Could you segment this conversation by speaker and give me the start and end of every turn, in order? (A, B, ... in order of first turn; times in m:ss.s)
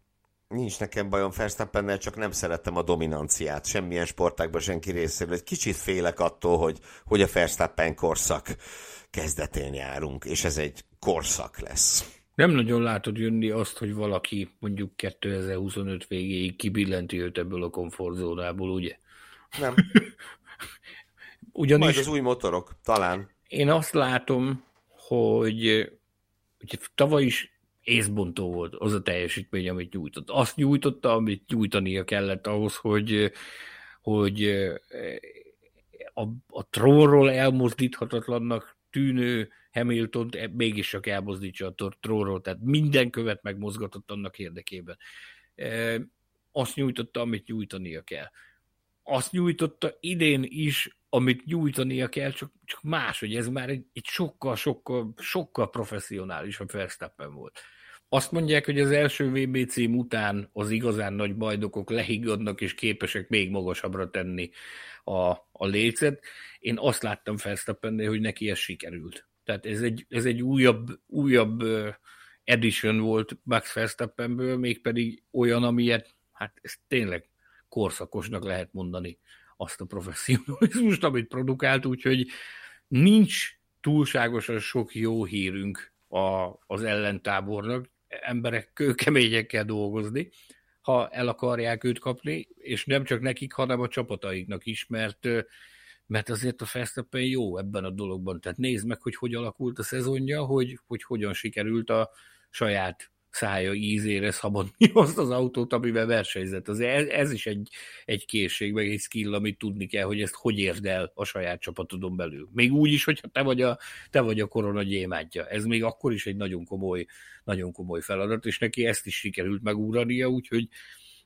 0:00.5-0:08.6 A
0:09.1-0:12.1 A
0:12.4-0:19.0 B
0:19.6-0:19.8 A
0:21.6-0:22.1 B
0:21.8-0:23.3 A
0:23.5-0:25.9 B
0:26.6-0:33.3 B
0:34.0-0:35.4 B
0:36.2-0:45.0 B
0:45.6-0:48.3 B
0:49.1-0:57.5 B
0:58.1-1:04.5 B
1:05.1-1:12.0 B
1:12.5-1:22.3 B
1:22.9-1:30.3 B
1:30.8-1:35.5 B
1:36.1-2:00.7 B